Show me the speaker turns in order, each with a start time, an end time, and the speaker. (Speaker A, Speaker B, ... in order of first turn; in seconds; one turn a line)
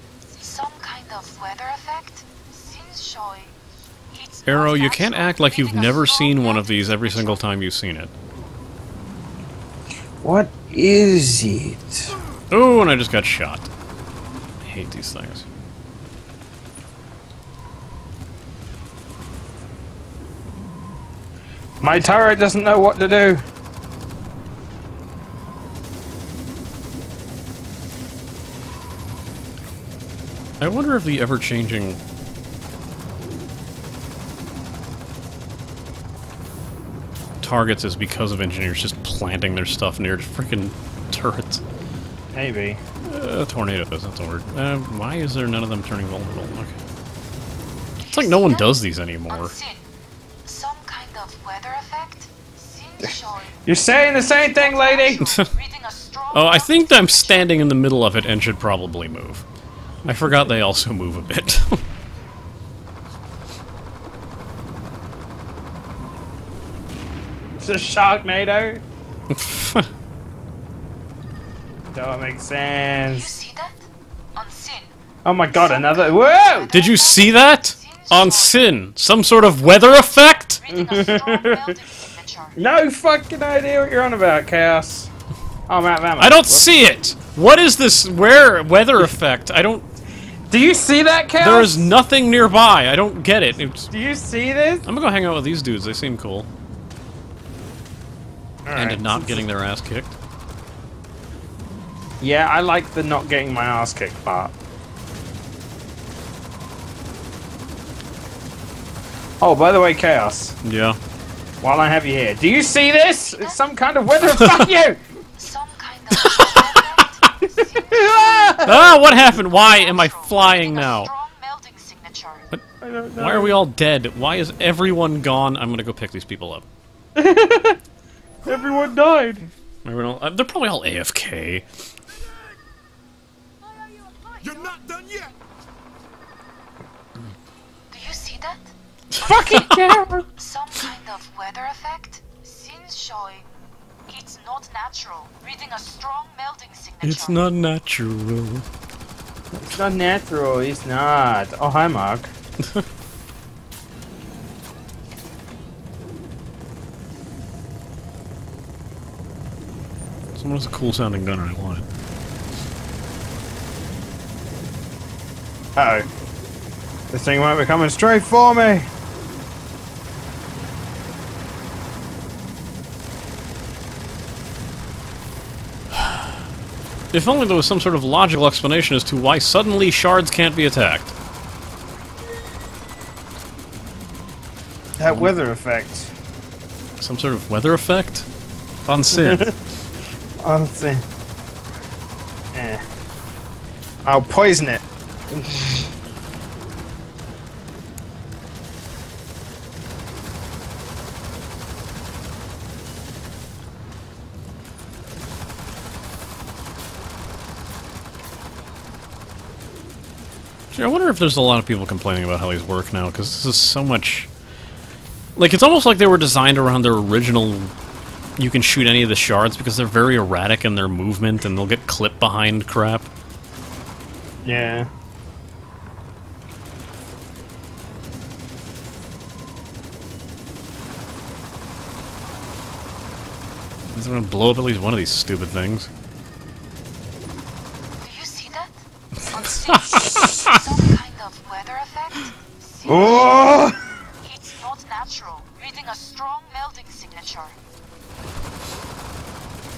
Speaker A: 0.3-3.5
Speaker A: 4.1-7.4
Speaker B: 4.5-8.1
Speaker C: 10.2-12.2
Speaker B: 12.5-13.7
Speaker B: 14.6-15.4
Speaker C: 21.8-23.4
Speaker B: 30.6-32.0
Speaker B: 37.4-41.6
Speaker C: 42.3-42.8
Speaker B: 43.0-46.8
Speaker A: 48.0-48.7
Speaker B: 48.1-49.6
Speaker A: 49.3-49.8
Speaker A: 50.4-53.5
Speaker C: 53.0-55.3
Speaker A: 54.5-57.5
Speaker B: 56.3-59.4
Speaker B: 60.1-61.8
Speaker C: 67.6-68.8
Speaker B: 69.3-69.9
Speaker C: 71.9-73.3
Speaker A: 73.2-74.9
Speaker C: 75.2-76.8
Speaker A: 75.7-78.6
Speaker B: 76.7-80.7
Speaker A: 80.6-82.5
Speaker C: 80.8-81.8
Speaker C: 82.5-85.1
Speaker C: 85.7-86.7
Speaker B: 86.2-89.8
Speaker C: 90.5-91.9
Speaker B: 91.4-93.9
Speaker C: 93.9-94.8
Speaker B: 94.8-96.5
Speaker C: 98.7-99.5
Speaker B: 98.7-100.2
Speaker C: 102.2-104.5
Speaker C: 109.4-110.5
Speaker B: 110.6-111.0
Speaker C: 111.6-115.0
Speaker A: 115.4-118.6
Speaker B: 116.2-117.1
Speaker C: 117.4-118.9
Speaker B: 118.6-121.1
Speaker A: 119.3-122.4
Speaker C: 122.8-123.6
Speaker B: 123.2-126.7
Speaker C: 127.2-127.8
Speaker C: 128.4-129.5
Speaker B: 129.8-131.7
Speaker A: 133.9-134.8
Speaker A: 137.9-138.7
Speaker B: 139.2-139.8
Speaker C: 139.2-140.2
Speaker A: 140.4-143.5
Speaker A: 144.1-147.4
Speaker B: 147.0-148.7
Speaker B: 149.5-149.8
Speaker C: 149.7-152.3
Speaker B: 160.3-161.9
Speaker C: 165.8-166.1
Speaker C: 167.1-168.9
Speaker B: 177.1-181.1
Speaker C: 185.0-186.1
Speaker B: 185.1-185.3
Speaker B: 187.0-188.3
Speaker B: 188.8-189.5
Speaker C: 189.2-189.5
Speaker C: 190.4-191.0
Speaker C: 192.5-192.8
Speaker C: 194.0-195.9
Speaker B: 210.7-214.3
Speaker B: 215.3-217.7
Speaker B: 218.4-223.1
Speaker C: 224.4-224.9
Speaker B: 233.9-235.9
Speaker A: 238.0-238.8
Speaker A: 239.3-243.6
Speaker B: 239.7-240.6
Speaker C: 242.8-243.8
Speaker A: 244.2-247.6